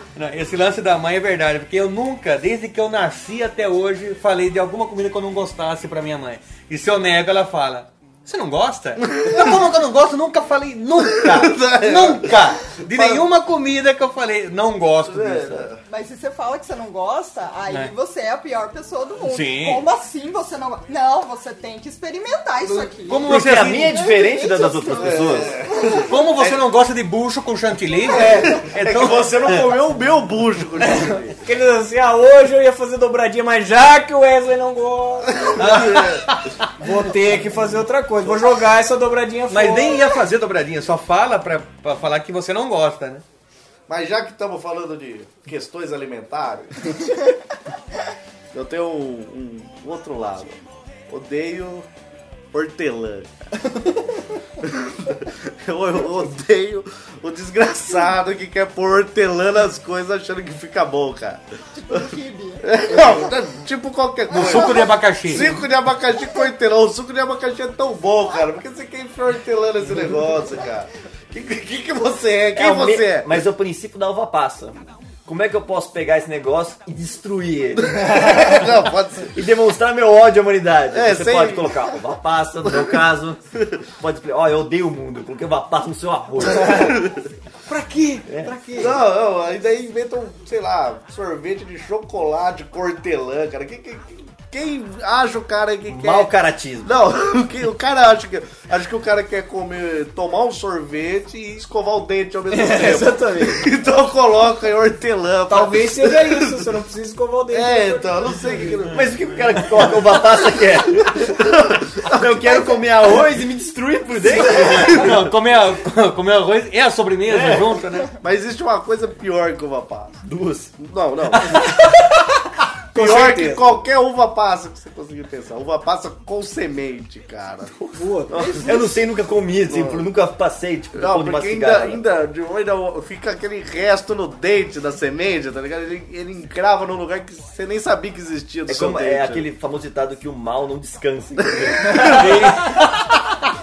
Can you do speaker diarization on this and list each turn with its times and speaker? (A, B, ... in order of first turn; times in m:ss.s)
0:00.2-0:15.7 A
0:11.1-0:13.2 B
0:15.0-0:15.8 B
0:15.8-0:26.1 C
0:19.3-0:19.8 A
0:23.1-0:24.0 A
0:23.3-0:25.6 D
0:24.9-0:26.6 B
0:26.0-0:29.7 A
0:28.1-0:31.4 B
0:30.8-0:35.6 E
0:35.3-0:36.3 B
0:35.6-0:36.5 A
0:36.8-0:40.0 E
0:39.5-0:43.2 A
0:43.9-0:47.0 B
0:48.5-0:51.8 B
0:52.5-0:53.3 B
0:54.6-1:02.0 B
1:01.7-1:02.7 C
1:02.6-1:13.4 B
1:04.3-1:05.5 A
1:04.4-1:04.8 C
1:12.6-1:18.7 D
1:17.9-1:19.3 B
1:19.3-1:23.4 D
1:20.9-1:21.9 B
1:24.0-1:27.1 D
1:26.6-1:27.1 B
1:27.9-1:28.2 E
1:28.3-1:28.6 D
1:28.4-1:28.9 C
1:28.8-1:36.3 B
1:35.9-1:37.0 D
1:36.8-1:46.7 B
1:42.5-1:43.7 E
1:45.5-1:48.9 E
1:47.5-1:49.9 B
1:48.9-1:51.4 D
1:51.0-1:52.8 B
1:52.0-1:55.2 D
1:54.3-1:55.1 B
1:54.5-1:58.1 A
1:57.3-1:57.8 D
1:58.2-2:00.2 B
2:00.2-2:00.7 D
2:00.8-2:01.7 B
2:02.9-2:03.8 E
2:02.9-2:07.7 B
2:07.8-2:12.0 D
2:07.9-2:08.4 E
2:08.3-2:08.8 B
2:08.4-2:08.9 C
2:09.7-2:10.1 B
2:10.9-2:19.4 B
2:18.7-2:22.8 D
2:21.6-2:22.6 B
2:22.1-2:22.6 A